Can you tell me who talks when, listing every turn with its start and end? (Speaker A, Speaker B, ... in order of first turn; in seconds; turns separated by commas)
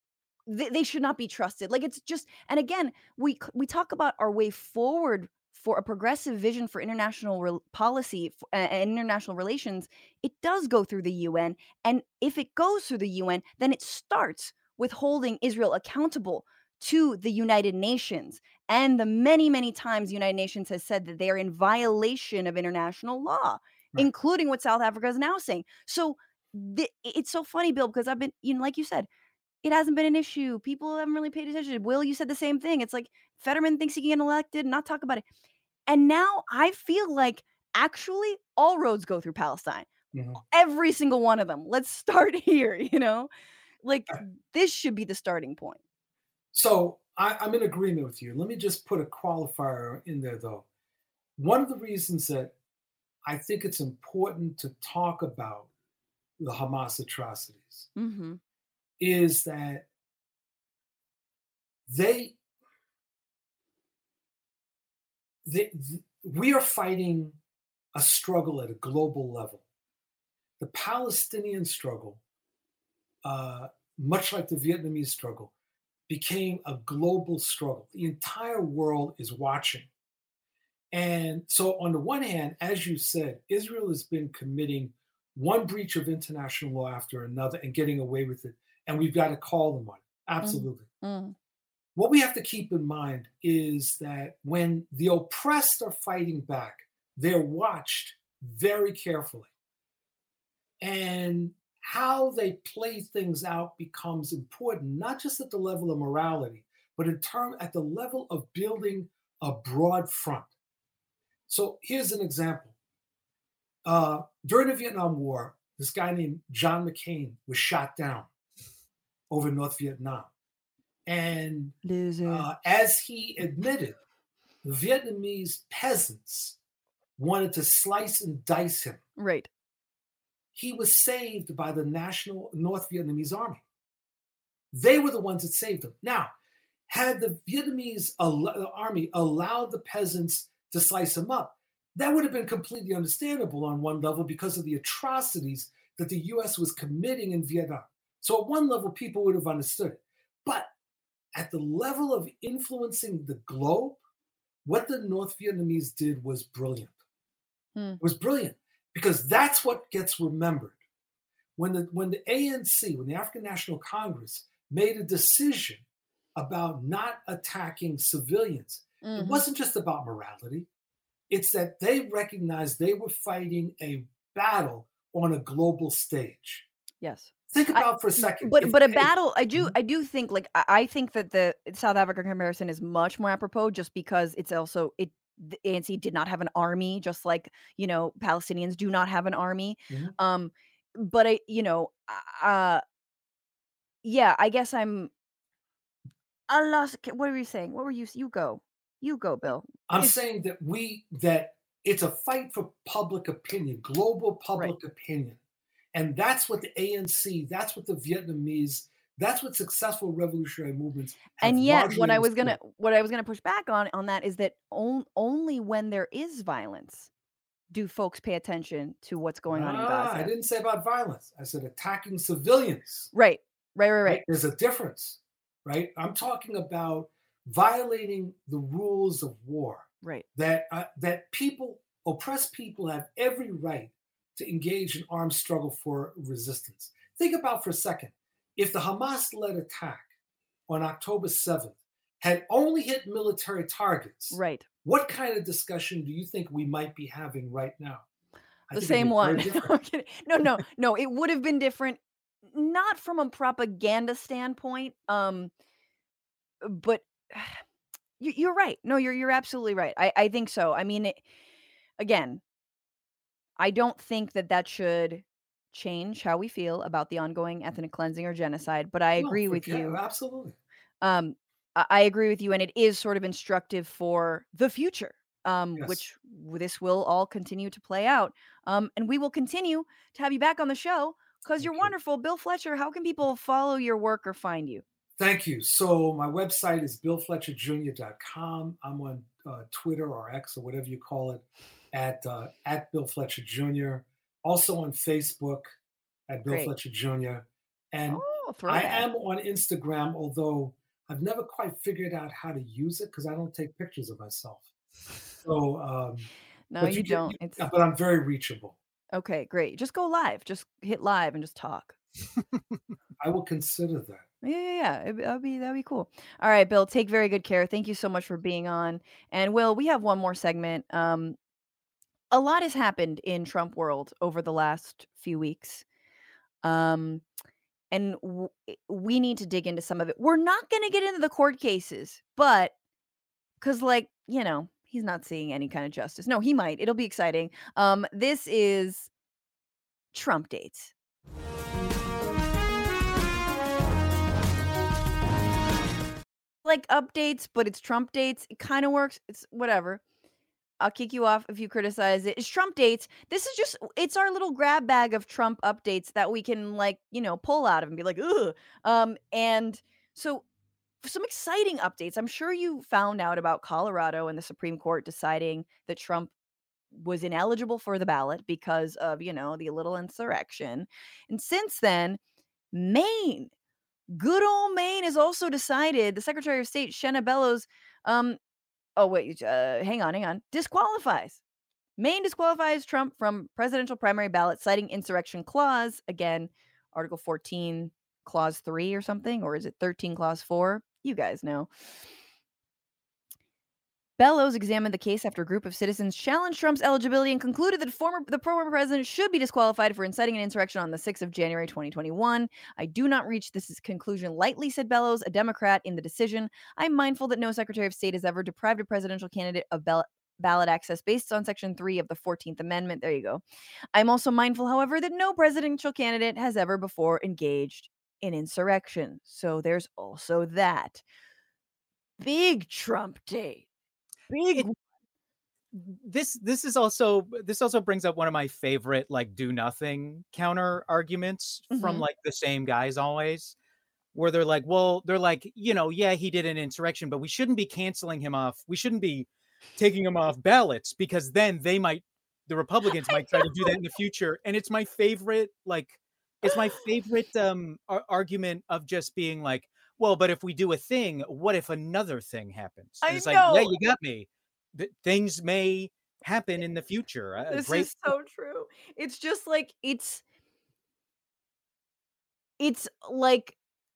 Speaker A: 0.5-29.1, Speaker A: 29.6-35.2, Speaker A: 35.9-39.9, Speaker B: 40.1-40.4, Speaker A: 40.5-43.3, Speaker A: 43.8-45.8, Speaker B: 46.5-50.6, Speaker B: 51.4-52.5, Speaker B: 53.2-55.7, Speaker B: 56.4-57.9, Speaker A: 58.0-58.4, Speaker B: 59.0-59.9, Speaker B: 61.9-62.4, Speaker B: 65.4-67.3, Speaker B: 67.9-69.6, Speaker B: 70.6-72.2, Speaker B: 73.2-75.5, Speaker B: 76.1-79.9, Speaker B: 80.9-90.9, Speaker A: 90.4-91.3, Speaker B: 91.9-99.5, Speaker B: 100.8-110.5, Speaker B: 111.5-112.7, Speaker B: 113.8-118.3, Speaker B: 119.3-120.3, Speaker B: 121.0-124.0, Speaker A: 121.8-122.5, Speaker B: 124.6-126.5, Speaker B: 127.2-129.0, Speaker A: 129.2-129.5, Speaker B: 130.5-133.6, Speaker B: 134.7-136.3, Speaker B: 136.9-150.7, Speaker B: 151.3-154.0, Speaker B: 154.6-156.9, Speaker B: 158.0-160.8, Speaker B: 161.6-165.8, Speaker B: 166.3-170.7, Speaker A: 169.0-169.4, Speaker B: 171.3-176.7, Speaker A: 177.0-192.8, Speaker B: 177.5-179.7, Speaker A: 194.0-195.1, Speaker A: 196.5-200.1, Speaker B: 199.9-205.4, Speaker B: 205.9-212.6, Speaker A: 211.4-217.1, Speaker A: 217.7-220.3, Speaker B: 219.5-223.1, Speaker A: 223.1-224.2, Speaker B: 224.1-240.1, Speaker B: 240.7-248.0, Speaker A: 244.3-244.7, Speaker B: 248.7-249.7, Speaker A: 248.7-255.5, Speaker A: 256.6-257.6, Speaker A: 258.2-261.2, Speaker A: 262.0-262.4, Speaker A: 263.6-270.0, Speaker B: 269.2-270.6, Speaker A: 271.0-284.8, Speaker B: 281.6-281.9, Speaker B: 285.2-295.7, Speaker B: 296.3-304.6, Speaker A: 296.5-296.7, Speaker A: 298.1-299.1, Speaker B: 305.4-306.3, Speaker A: 306.7-307.6, Speaker B: 306.8-308.8, Speaker A: 309.1-312.0, Speaker B: 313.2-314.2, Speaker A: 314.4-321.4, Speaker A: 322.3-325.8, Speaker A: 326.6-327.2, Speaker A: 327.9-332.7, Speaker A: 333.6-339.1, Speaker A: 340.1-340.9, Speaker A: 346.6-350.0, Speaker A: 350.8-360.4, Speaker A: 361.0-366.3, Speaker A: 366.9-372.2, Speaker A: 372.7-373.5, Speaker A: 374.1-378.4, Speaker A: 378.9-381.4, Speaker A: 382.0-391.7, Speaker A: 394.2-413.4, Speaker A: 413.9-421.0, Speaker A: 422.2-423.6, Speaker A: 424.3-424.8, Speaker C: 425.7-433.5, Speaker A: 431.7-432.0, Speaker C: 434.1-457.9, Speaker A: 442.9-443.7, Speaker A: 453.0-453.7, Speaker A: 457.5-460.2, Speaker A: 462.6-463.6